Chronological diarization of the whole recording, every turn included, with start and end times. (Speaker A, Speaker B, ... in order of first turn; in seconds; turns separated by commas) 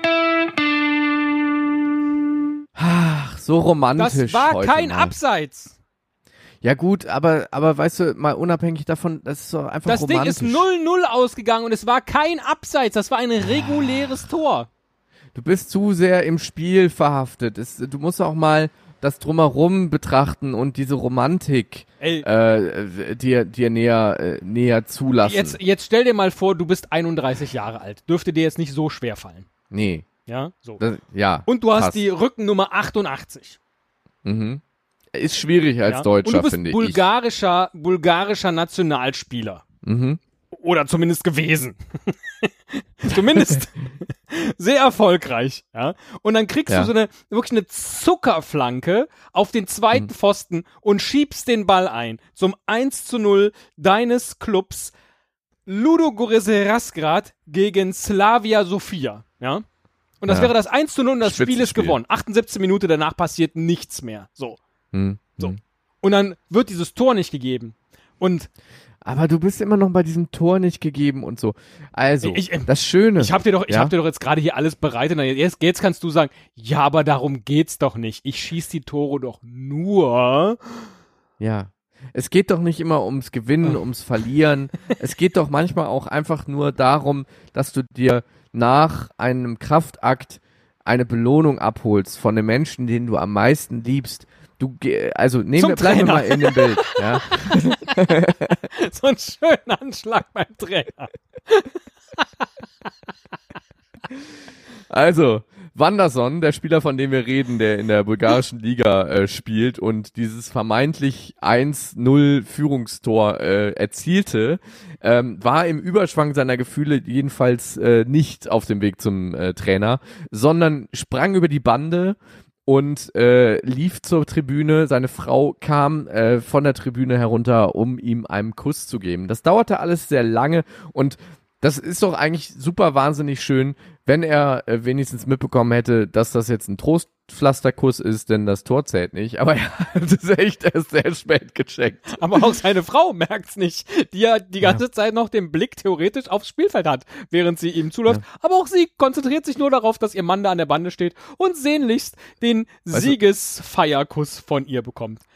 Speaker A: 2.8-5.2, Speaker B: 4.0-5.8, Speaker A: 6.6-10.7, Speaker B: 9.8-14.7, Speaker A: 15.3-25.6, Speaker B: 22.0-22.3, Speaker B: 25.2-29.5, Speaker A: 29.7-30.1, Speaker B: 30.2-30.8, Speaker A: 30.8-32.0, Speaker B: 31.5-33.6, Speaker A: 34.2-34.6, Speaker A: 35.1-37.0, Speaker B: 35.9-39.6, Speaker A: 39.8-40.2, Speaker B: 40.5-54.9, Speaker B: 55.6-59.6, Speaker B: 60.2-64.6, Speaker A: 60.3-60.5, Speaker A: 61.2-62.0, Speaker A: 64.9-65.6, Speaker B: 65.4-68.5, Speaker A: 69.0-73.9, Speaker B: 72.2-80.9, Speaker A: 81.4-98.5, Speaker B: 95.5-98.1, Speaker B: 98.7-102.2, Speaker A: 104.9-142.6, Speaker B: 142.2-155.2, Speaker A: 152.9-153.2